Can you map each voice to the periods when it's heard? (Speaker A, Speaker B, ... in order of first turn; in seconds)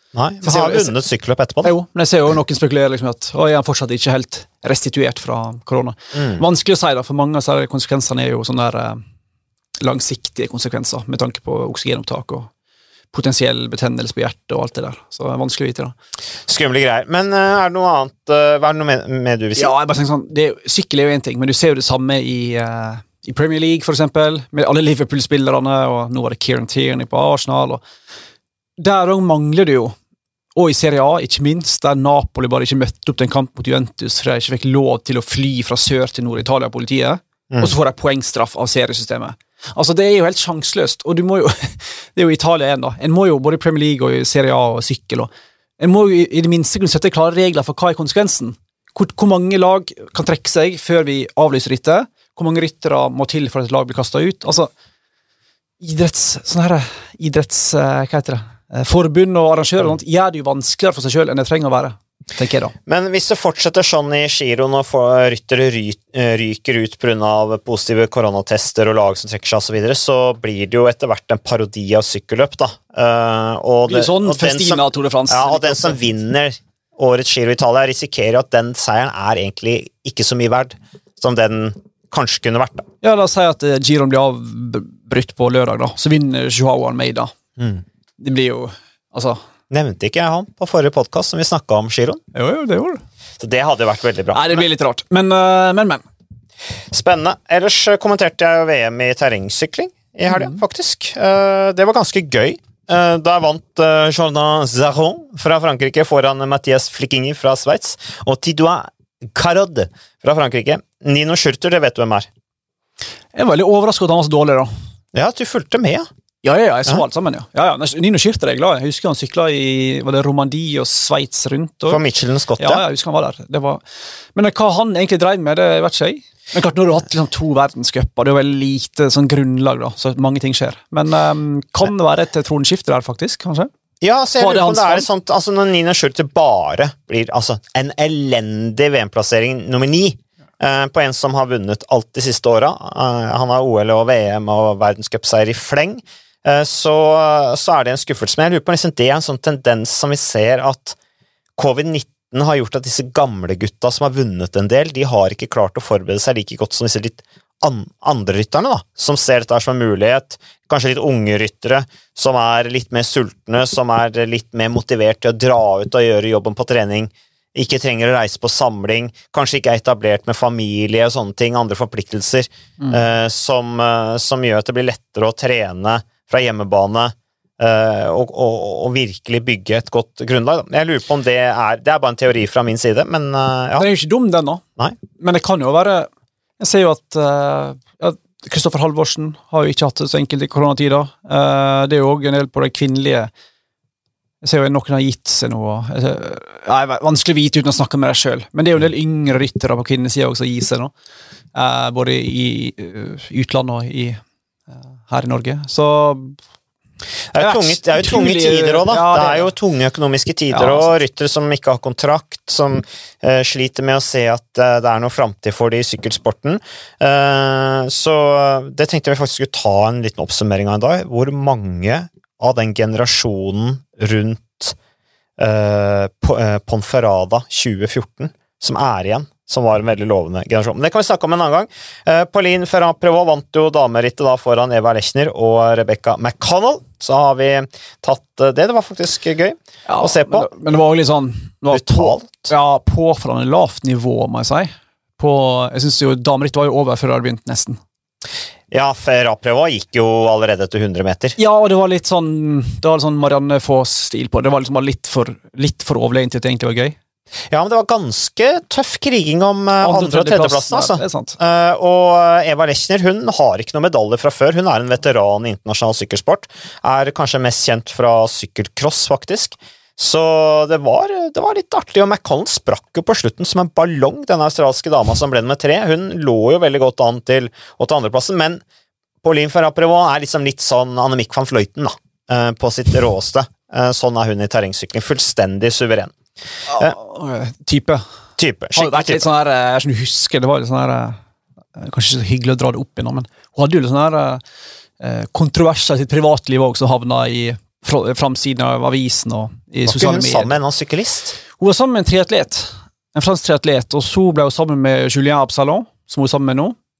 Speaker A: 0.1-1.7, 6.1-6.4, 16.5-19.7, 62.9-82.9, 87.6-87.8, 89.7-92.2, 93.4-94.6, 96.9-112.3, 115.1-116.1, 121.9-122.8, 134.0-151.0, 151.6-183.8, 207.3-224.8, 225.4-240.5, 241.7-242.5, 248.7-251.4, 257.5-278.6, 279.2-286.1, 288.4-289.2, 299.9-301.4
Speaker B: 0.4-0.9, 1.6-9.0, 9.8-12.5, 13.1-15.9, 19.6-27.8, 28.8-29.9, 30.6-54.7, 55.8-62.7, 73.9-76.0, 83.0-87.3, 88.2-89.4, 92.3-93.0, 94.3-96.0, 113.3-114.7, 116.4-122.0, 122.6-123.8, 124.3-133.7, 134.4-135.1, 183.8-184.6, 185.2-186.1, 186.6-193.3, 194.4-200.9, 201.6-204.2, 205.1-206.4, 207.4-209.5, 210.5-210.9, 239.9-247.8, 251.4-257.0, 259.8-261.4, 286.7-288.0, 288.7-291.2, 291.8-294.4, 295.0-300.5, 301.5-306.8